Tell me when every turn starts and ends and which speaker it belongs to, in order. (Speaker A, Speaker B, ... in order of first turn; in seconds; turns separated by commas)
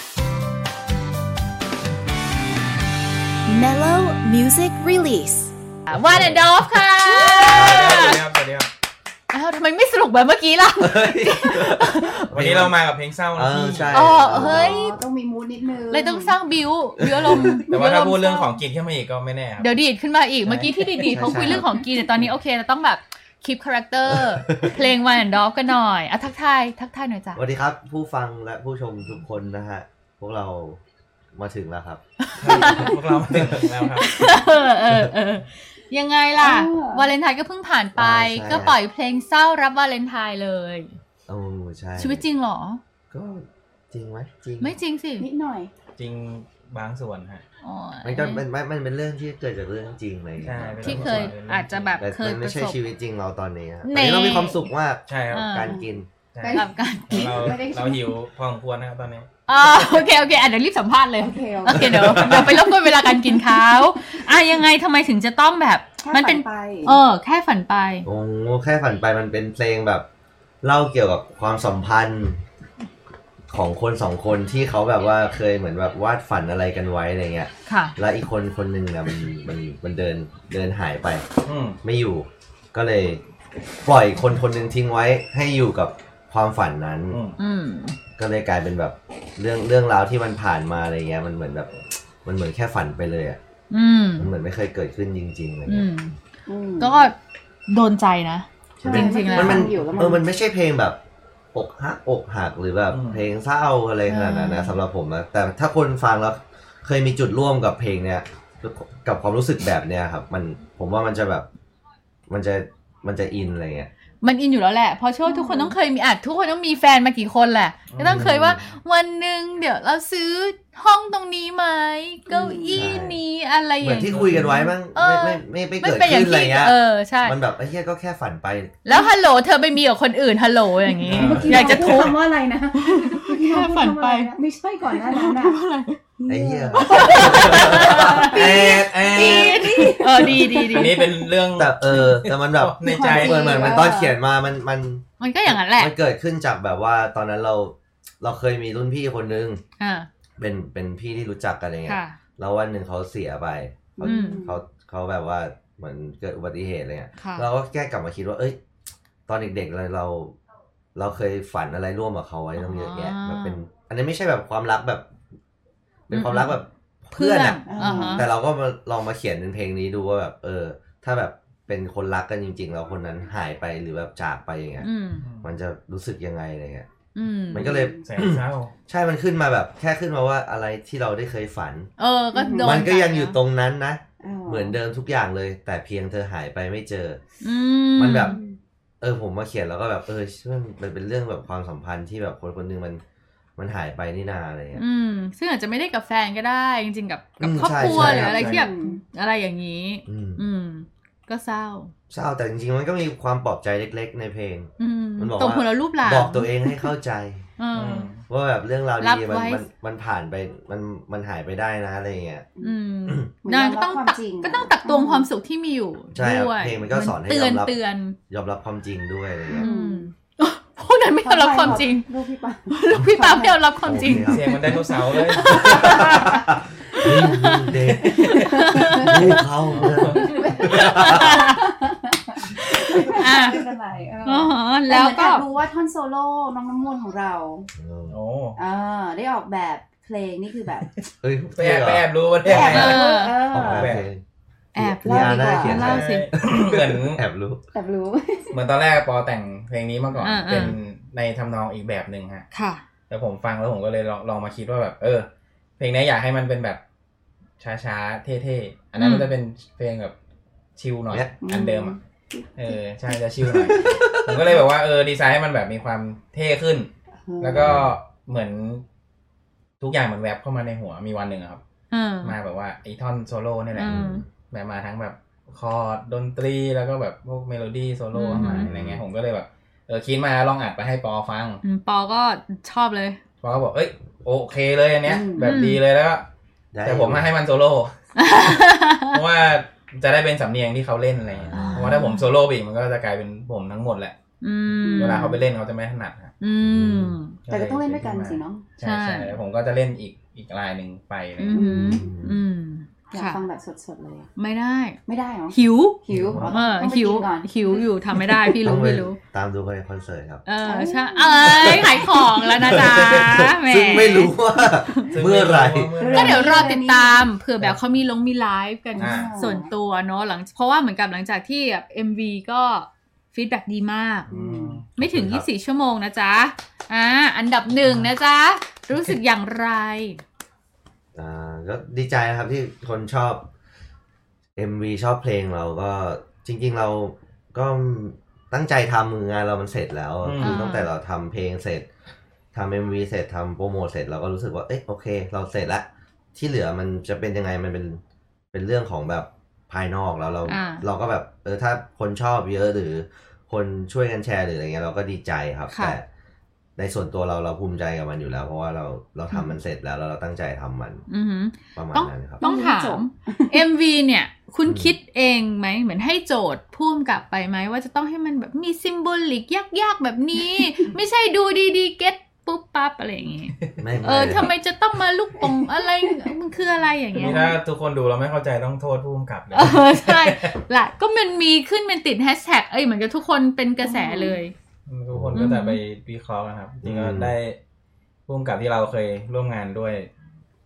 Speaker A: 3.5-5.5, Speaker B: 5.9-8.2, Speaker C: 5.9-6.5, Speaker C: 7.5-8.7, Speaker B: 9.3-12.3, Speaker D: 10.8-12.8, Speaker C: 12.3-14.1, Speaker D: 13.4-14.8, Speaker B: 13.9-15.0, Speaker E: 14.3-16.4, Speaker B: 15.9-18.4, Speaker D: 17.0-17.7, Speaker E: 17.7-18.5, Speaker C: 17.7-19.8, Speaker B: 19.6-27.4, Speaker C: 20.4-21.5, Speaker D: 21.1-21.7, Speaker D: 24.1-24.8, Speaker D: 27.4-30.8, Speaker D: 31.4-33.6, Speaker B: 32.2-33.0, Speaker C: 32.4-34.1, Speaker B: 33.8-40.9, Speaker E: 36.4-37.1, Speaker D: 38.0-38.8, Speaker D: 41.3-42.2, Speaker B: 42.0-42.8, Speaker D: 43.1-44.8, Speaker B: 44.6-45.3, Speaker E: 45.2-45.7, Speaker C: 46.0-47.4, Speaker B: 47.6-48.5, Speaker D: 48.0-51.3, Speaker C: 50.4-52.1, Speaker B: 50.8-52.9, Speaker D: 52.0-56.1, Speaker B: 53.8-54.7, Speaker C: 55.1-55.5, Speaker B: 55.3-55.8, Speaker E: 55.6-58.1, Speaker C: 56.3-59.3, Speaker B: 56.5-57.3, Speaker B: 59.5-68.1, Speaker E: 61.2-62.1, Speaker D: 61.7-62.6, Speaker E: 62.7-63.6, Speaker E: 66.0-67.0, Speaker D: 68.0-70.1, Speaker D: 70.6-72.4, Speaker D: 73.5-81.3, Speaker B: 77.7-78.0, Speaker C: 81.5-81.8, Speaker D: 81.8-83.2, Speaker D: 83.8-87.2, Speaker C: 87.1-87.4, Speaker B: 87.4-88.0, Speaker D: 88.2-91.7, Speaker D: 92.2-93.4, Speaker B: 93.7-94.3, Speaker D: 94.2-95.9, Speaker B: 95.7-96.2, Speaker E: 96.5-97.1, Speaker B: 96.8-97.2, Speaker B: 97.7-99.7, Speaker E: 98.8-100.3, Speaker D: 98.8-101.0, Speaker D: 101.5-111.5, Speaker C: 102.9-103.2, Speaker B: 104.1-104.8, Speaker D: 112.3-113.9, Speaker B: 114.2-127.4, Speaker E: 115.2-115.8, Speaker C: 117.9-118.6, Speaker D: 118.0-118.6, Speaker E: 122.3-122.9, Speaker D: 122.7-123.2, Speaker D: 123.8-128.8, Speaker C: 124.0-124.5, Speaker B: 128.8-132.2, Speaker E: 128.9-129.1, Speaker E: 130.8-135.6, Speaker C: 131.1-132.1, Speaker D: 131.2-131.7, Speaker B: 132.8-134.3, Speaker B: 134.9-136.0, Speaker E: 136.2-141.2, Speaker D: 136.3-138.9, Speaker B: 136.8-138.5, Speaker C: 138.2-139.7, Speaker B: 139.1-141.0, Speaker C: 140.7-143.8, Speaker D: 141.6-149.6, Speaker E: 142.8-144.2, Speaker B: 145.2-145.9, Speaker B: 149.8-150.1, Speaker D: 150.4-158.6, Speaker B: 151.9-152.2, Speaker E: 154.0-154.6, Speaker B: 154.0-154.5, Speaker B: 157.2-157.5, Speaker D: 159.3-160.4, Speaker D: 160.9-165.1, Speaker B: 162.6-163.6, Speaker D: 166.1-174.9, Speaker B: 166.1-166.6, Speaker B: 167.1-168.3, Speaker E: 167.7-168.2, Speaker B: 174.8-175.3, Speaker C: 175.2-175.5, Speaker D: 175.4-176.9, Speaker B: 177.2-177.7, Speaker D: 177.5-181.9, Speaker E: 177.5-178.1, Speaker C: 178.1-178.7, Speaker B: 182.0-183.4, Speaker E: 182.3-182.8, Speaker D: 182.6-187.2, Speaker E: 184.2-184.8, Speaker B: 187.4-188.4, Speaker D: 188.0-188.4, Speaker E: 188.2-188.6, Speaker D: 189.0-193.0, Speaker D: 193.6-194.8, Speaker B: 194.8-201.9, Speaker D: 197.4-198.4, Speaker C: 197.8-198.7, Speaker E: 198.3-199.0, Speaker D: 200.1-200.4, Speaker D: 202.1-207.5, Speaker B: 204.8-206.9, Speaker B: 207.6-208.1, Speaker C: 207.7-208.2, Speaker D: 208.3-212.5, Speaker B: 209.0-209.7, Speaker B: 212.6-218.2, Speaker E: 213.4-215.3, Speaker D: 216.1-217.8, Speaker D: 218.3-219.7, Speaker B: 219.5-222.1, Speaker E: 219.5-220.1, Speaker E: 221.2-225.7, Speaker B: 222.7-224.4, Speaker D: 223.8-224.6, Speaker C: 224.2-226.1, Speaker B: 225.3-226.4, Speaker D: 225.5-228.2, Speaker B: 226.9-229.4, Speaker E: 228.7-229.3, Speaker D: 229.0-231.4, Speaker C: 229.1-230.3, Speaker E: 229.8-237.7, Speaker B: 230.3-231.7, Speaker B: 232.6-233.6, Speaker B: 234.2-235.4, Speaker D: 237.8-238.2, Speaker C: 238.1-238.6, Speaker E: 238.6-240.9, Speaker C: 241.0-244.1, Speaker D: 241.2-243.0, Speaker B: 242.4-243.5, Speaker E: 242.5-244.0, Speaker D: 243.5-244.2, Speaker E: 244.8-246.0, Speaker D: 244.8-247.6, Speaker B: 245.0-246.3, Speaker C: 245.8-247.2, Speaker E: 247.7-248.6, Speaker C: 248.5-252.5, Speaker B: 250.2-250.8, Speaker B: 252.5-252.8, Speaker C: 253.1-256.8, Speaker C: 257.6-260.1, Speaker B: 259.0-259.3, Speaker C: 260.8-262.0, Speaker E: 261.4-262.8, Speaker C: 262.6-268.8, Speaker D: 263.4-264.5, Speaker E: 267.3-267.7, Speaker D: 267.6-267.9, Speaker C: 269.8-271.6, Speaker B: 271.9-272.4, Speaker C: 272.2-281.6, Speaker B: 273.8-274.2, Speaker D: 273.9-274.2, Speaker B: 278.1-278.7, Speaker D: 278.4-279.0, Speaker B: 281.6-283.2, Speaker C: 283.4-286.3, Speaker E: 285.1-285.6, Speaker B: 285.4-285.8, Speaker D: 286.7-287.3, Speaker C: 286.8-287.9, Speaker B: 288.2-289.2, Speaker C: 289.1-294.2, Speaker D: 291.3-291.9, Speaker B: 291.5-292.2, Speaker E: 291.6-292.0, Speaker B: 294.4-295.3, Speaker E: 294.9-295.4, Speaker C: 294.9-296.3, Speaker B: 296.4-297.4, Speaker D: 296.6-297.2, Speaker C: 297.4-301.7, Speaker E: 297.5-298.7, Speaker B: 298.8-299.4, Speaker B: 301.4-303.4, Speaker E: 301.5-302.1, Speaker D: 301.8-302.4, Speaker E: 303.1-304.3, Speaker B: 304.4-305.0, Speaker E: 305.1-308.6, Speaker B: 305.5-306.0, Speaker C: 306.1-306.6, Speaker B: 306.5-309.2, Speaker D: 308.6-310.4, Speaker B: 310.4-315.1, Speaker E: 310.6-312.1, Speaker D: 311.4-315.9, Speaker C: 315.1-316.7, Speaker E: 316.0-317.3, Speaker B: 316.1-324.3, Speaker E: 318.9-319.7, Speaker C: 319.0-319.4, Speaker C: 324.3-325.0, Speaker E: 324.3-324.8, Speaker B: 325.0-330.2, Speaker D: 325.0-325.5, Speaker C: 327.8-328.1, Speaker D: 331.1-333.5, Speaker D: 334.6-341.9, Speaker C: 340.2-340.6, Speaker B: 340.4-340.9, Speaker D: 342.5-348.0, Speaker D: 348.5-356.1, Speaker B: 350.5-350.8, Speaker B: 355.7-356.0, Speaker D: 356.8-361.1, Speaker B: 361.1-377.5, Speaker D: 361.8-362.4, Speaker E: 362.4-363.7, Speaker D: 364.7-364.9, Speaker D: 373.8-374.5, Speaker E: 375.4-376.1, Speaker E: 377.2-377.6, Speaker C: 377.2-380.5, Speaker B: 379.5-384.5, Speaker E: 383.8-384.4, Speaker C: 384.9-387.6, Speaker D: 385.1-385.5, Speaker B: 385.4-385.8, Speaker D: 386.8-387.3, Speaker C: 388.3-390.1